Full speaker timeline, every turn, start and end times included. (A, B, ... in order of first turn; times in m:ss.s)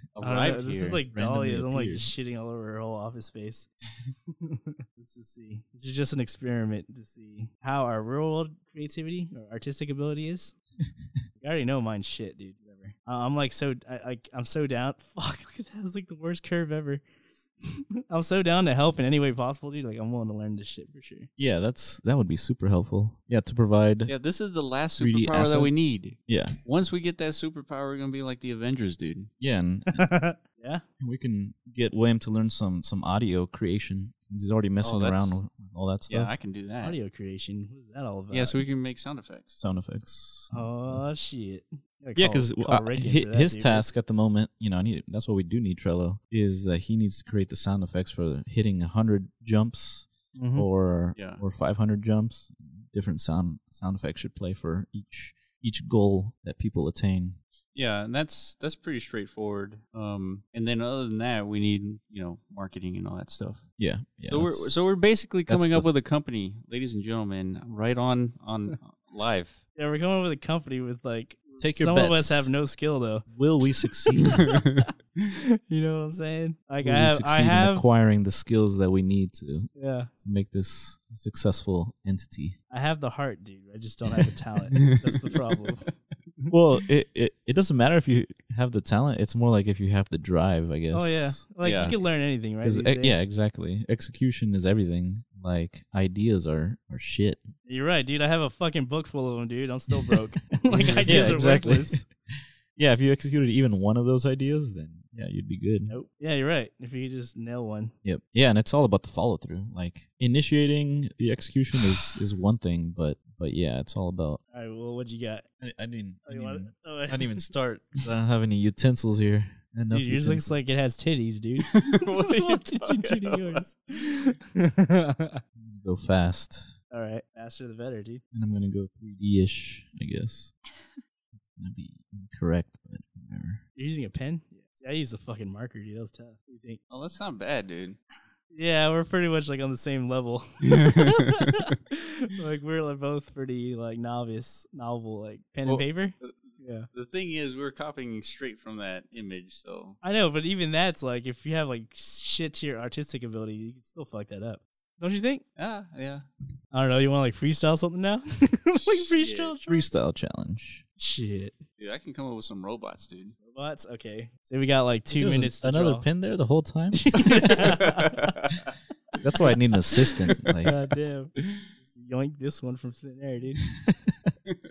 0:00.1-0:01.0 A
0:00.2-0:03.7 B
0:01.1-0:02.1 C
0:04.3-0:10.6 B
0:11.4-0:17.0 B
0:17.6-0:21.3 B
0:21.4-0:24.1 C
0:24.1-0:29.3 A
0:25.0-0:26.6 C
0:29.4-0:30.1 C
0:30.0-0:30.8 B
0:31.0-0:36.4 C
0:34.8-0:35.4 A
0:36.1-0:37.0 A
0:36.8-0:38.6 B
0:38.3-0:39.6 A
0:39.6-0:41.0 C
0:40.5-0:43.9 B
0:42.2-0:57.4 C
0:50.4-0:50.7 B
0:51.2-0:51.4 A
0:57.8-1:03.7 A
1:03.8-1:04.8 C
1:04.3-1:09.6 A
1:05.5-1:05.9 C
1:09.8-1:17.9 B
1:11.6-1:12.5 C
1:13.3-1:14.4 C
1:14.2-1:14.9 A
1:16.8-1:22.6 C
1:19.8-1:20.1 B
1:22.7-1:26.5 B
1:24.7-1:25.6 A
1:26.5-1:32.1 C
1:30.9-1:33.2 B
1:31.6-1:32.0 A
1:32.6-1:37.4 C
1:37.7-1:42.1 B
1:40.7-1:41.4 A
1:41.1-1:42.1 C
1:42.8-1:45.9 C
1:45.9-1:47.9 B
1:48.0-1:54.4 C
1:54.5-1:55.5 B
1:55.6-2:00.7 C
1:56.3-1:57.5 B
1:59.9-2:05.4 B
2:01.6-2:03.6 A
2:05.6-2:06.8 C
2:06.9-2:08.2 B
2:08.3-2:10.6 C
2:11.6-2:13.6 C
2:13.8-2:16.8 B
2:16.9-2:18.0 A
2:18.5-2:26.9 B
2:20.7-2:21.7 A
2:25.7-2:30.0 A
2:30.0-2:35.4 B
2:35.6-2:36.3 A
2:36.7-2:39.8 B
2:38.8-2:39.6 A
2:39.7-2:40.8 C
2:41.0-2:41.6 B
2:41.8-2:43.4 A
2:43.5-2:46.1 B
2:45.1-2:47.8 C
2:47.0-2:48.3 B
2:47.8-2:48.7 A
2:49.2-2:50.8 C
2:50.6-2:53.6 B
2:53.8-2:54.3 C